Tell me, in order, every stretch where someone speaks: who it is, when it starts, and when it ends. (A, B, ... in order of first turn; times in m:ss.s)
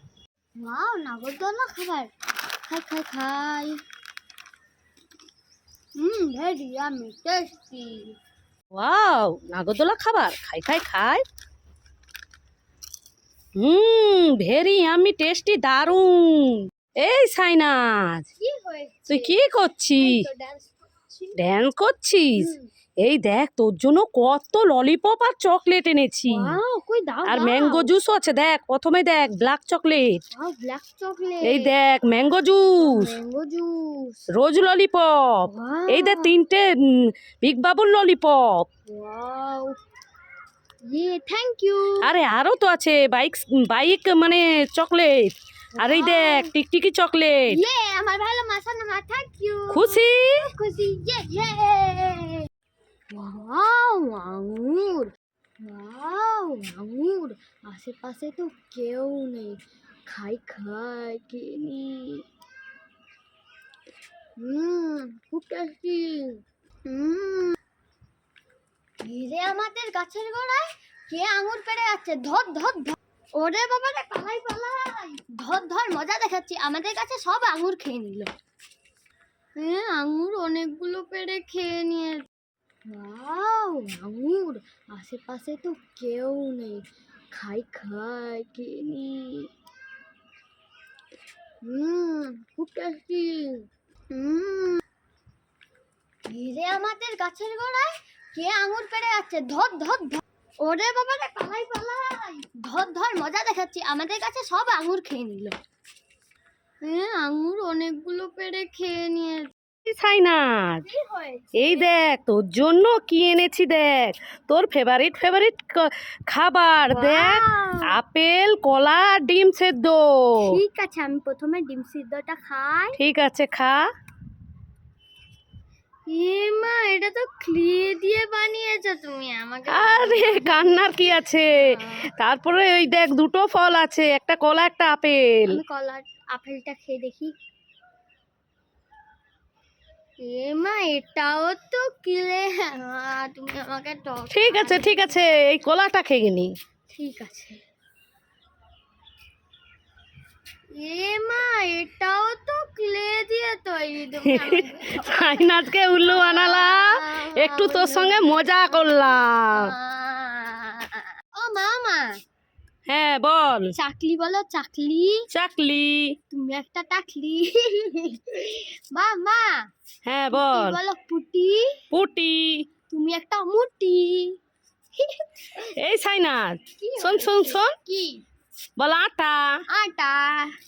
0:00.6-0:02.1 A
0:02.7-0:03.8 A
0:06.0-0:08.2 A
0:08.7-0:11.2 B
0:13.6-0:18.2 B
0:18.4-0:19.4 A
0:19.1-0:20.2 B
0:20.0-0:21.4 A
0:21.4-0:22.5 B
0:22.4-0:22.7 A
0:23.0-0:26.6 B
0:26.3-0:27.9 A
0:27.3-0:30.2 B
0:30.3-0:31.7 A
0:31.4-0:33.1 B
0:32.8-0:34.2 A
0:34.3-0:38.6 B
0:35.5-0:36.3 A
0:38.9-0:39.8 A
0:40.9-0:42.1 A
0:42.0-0:47.6 B
0:45.8-0:46.5 A
0:47.5-0:52.5 A
0:49.7-0:50.5 B
0:53.1-0:55.1 A
0:55.6-1:02.2 A
1:04.4-1:07.6 A
1:09.0-1:18.3 A
1:19.6-1:22.2 A
1:22.9-1:29.5 A
1:31.6-1:34.8 A
1:36.3-1:45.6 A
1:46.8-1:49.5 A
1:49.9-1:50.8 B
1:50.8-1:51.9 A
1:51.6-2:00.5 B
1:56.9-1:57.9 A
2:00.4-2:03.0 A
2:03.0-2:03.8 B
2:06.1-2:12.1 A
2:09.7-2:11.7 B
2:12.2-2:15.6 B
2:15.5-2:17.4 A
2:20.2-2:25.2 A
2:24.3-2:26.5 B
2:26.9-2:27.6 A
2:30.8-2:42.2 A
2:34.2-2:39.7 B
2:42.9-2:43.7 B
2:43.8-2:45.3 A
2:45.3-2:46.2 B
2:46.3-2:49.6 A
2:50.1-2:50.8 B
2:50.3-2:51.8 A
2:51.9-2:52.6 B
2:52.9-2:54.4 A
2:54.9-2:55.7 A
2:55.8-2:57.8 B
2:56.8-2:58.2 A
2:58.8-2:59.6 B
2:59.7-3:00.5 A